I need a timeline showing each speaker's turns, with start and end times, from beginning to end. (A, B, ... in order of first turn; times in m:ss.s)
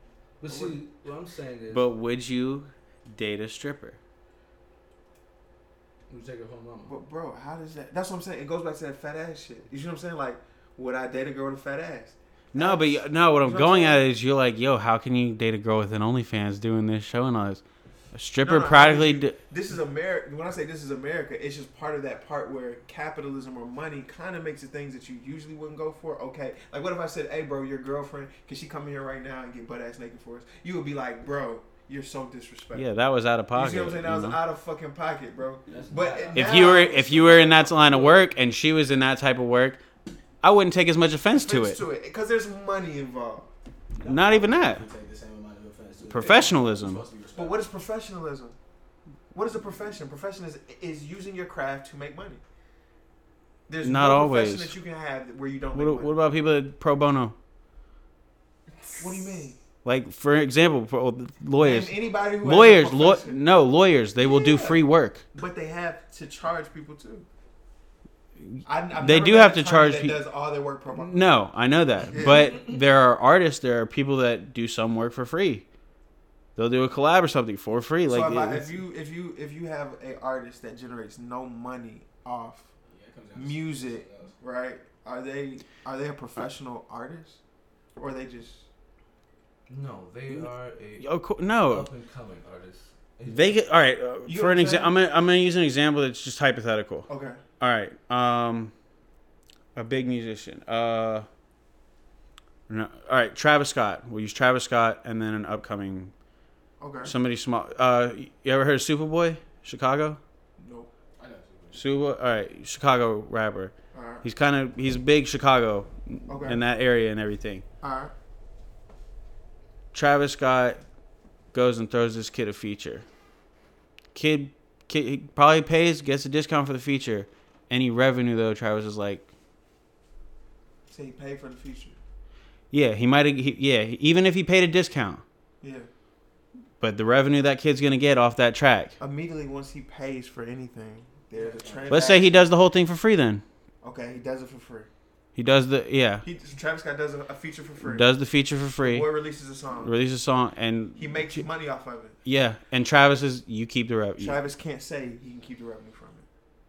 0:00.4-0:01.9 A
0:00.5-0:00.8 B
0:01.7-0:04.0 C
0:06.1-0:07.0 A
0:06.8-0:14.1 B
0:12.5-0:17.6 C
0:18.1-0:19.4 C
0:18.4-0:32.9 B
0:32.7-0:34.4 C
0:33.5-0:38.3 B
0:35.7-0:37.0 D
0:35.7-0:36.5 A
0:36.4-0:39.8 C
0:40.4-0:41.8 C
0:41.4-0:43.5 B
0:44.0-0:47.7 D
0:44.0-0:44.8 C
0:46.1-0:47.0 C
0:47.4-0:48.6 B
0:49.3-0:52.4 B
0:53.7-0:56.1 B
0:53.8-0:54.7 C
0:55.7-0:57.3 C
0:58.8-0:59.1 D
0:59.0-0:59.6 B
0:59.8-1:05.2 C
1:01.6-1:03.4 B
1:04.2-1:07.3 B
1:08.4-1:10.2 C
1:08.6-1:11.2 B
1:10.9-1:15.7 C
1:12.1-1:12.7 B
1:16.6-1:18.7 C
1:18.1-1:22.7 B
1:22.9-1:24.4 D
1:23.3-1:27.4 B
1:28.0-1:28.7 B
1:29.7-1:31.1 A
1:31.0-1:31.9 C
1:31.6-1:33.6 A
1:33.2-1:38.7 C
1:34.3-1:35.0 B
1:37.1-1:37.4 B
1:39.8-1:41.3 C
1:42.7-1:46.1 C
1:46.8-1:47.1 B
1:47.0-1:50.2 C
1:50.6-1:50.9 B
1:51.2-1:51.8 D
1:51.7-1:57.6 C
1:53.9-1:54.2 B
1:56.3-1:56.6 B
1:57.8-1:58.1 B
1:59.9-2:00.8 C
2:01.5-2:03.1 C
2:04.1-2:09.3 C
2:10.9-2:12.0 B
2:12.7-2:15.2 C
2:15.6-2:15.9 B
2:16.8-2:18.9 C
2:19.0-2:22.4 B
2:21.3-2:22.3 D
2:21.9-2:23.4 C
2:23.8-2:24.9 B
2:25.4-2:26.3 C
2:26.2-2:28.1 B
2:27.8-2:29.1 C
2:28.8-2:30.0 B
2:29.8-2:31.5 C
2:31.0-2:32.2 B
2:32.2-2:34.4 C
2:34.2-2:36.3 B